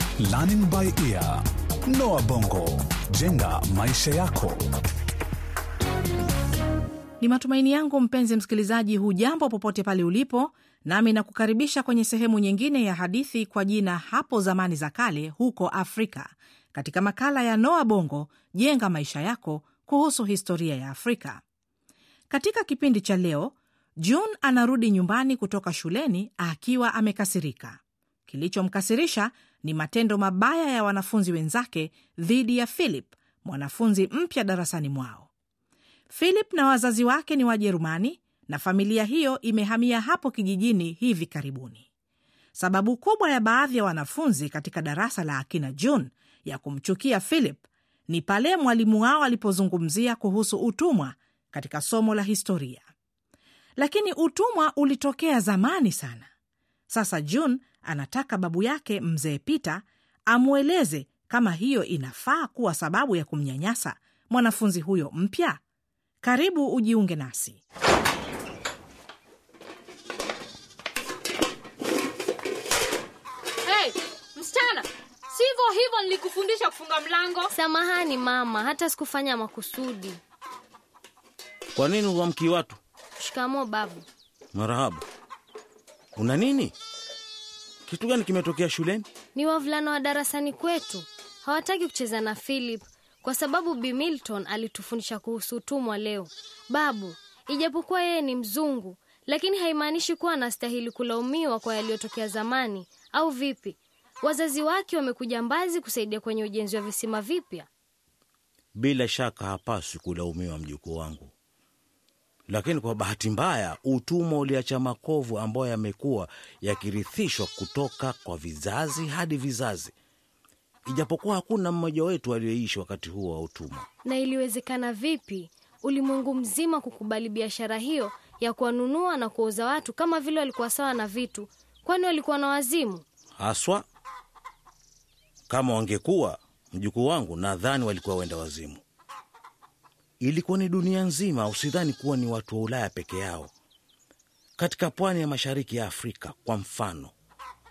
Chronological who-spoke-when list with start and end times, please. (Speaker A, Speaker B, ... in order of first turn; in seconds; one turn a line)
Speaker A: 0.2-4.7
Speaker B: 7.2-21.4
Speaker B: 22.3-35.3
Speaker B: 36.1-41.9
Speaker B: 42.5-52.9
Speaker B: 53.8-56.3
Speaker B: 56.9-65.6
Speaker B: 66.2-67.6
Speaker C: 73.7-77.5
Speaker D: 77.5-80.2
Speaker E: 81.7-82.8
Speaker D: 83.2-84.0
Speaker E: 84.5-85.0
Speaker E: 86.1-86.7
Speaker E: 87.9-89.0
Speaker D: 89.3-107.7
Speaker E: 108.8-111.3
Speaker E: 112.5-119.9
Speaker E: 120.9-123.8
Speaker D: 124.0-133.0
Speaker E: 133.4-133.8
Speaker E: 135.5-138.8
Speaker E: 140.2-143.5
Speaker E: 144.6-147.1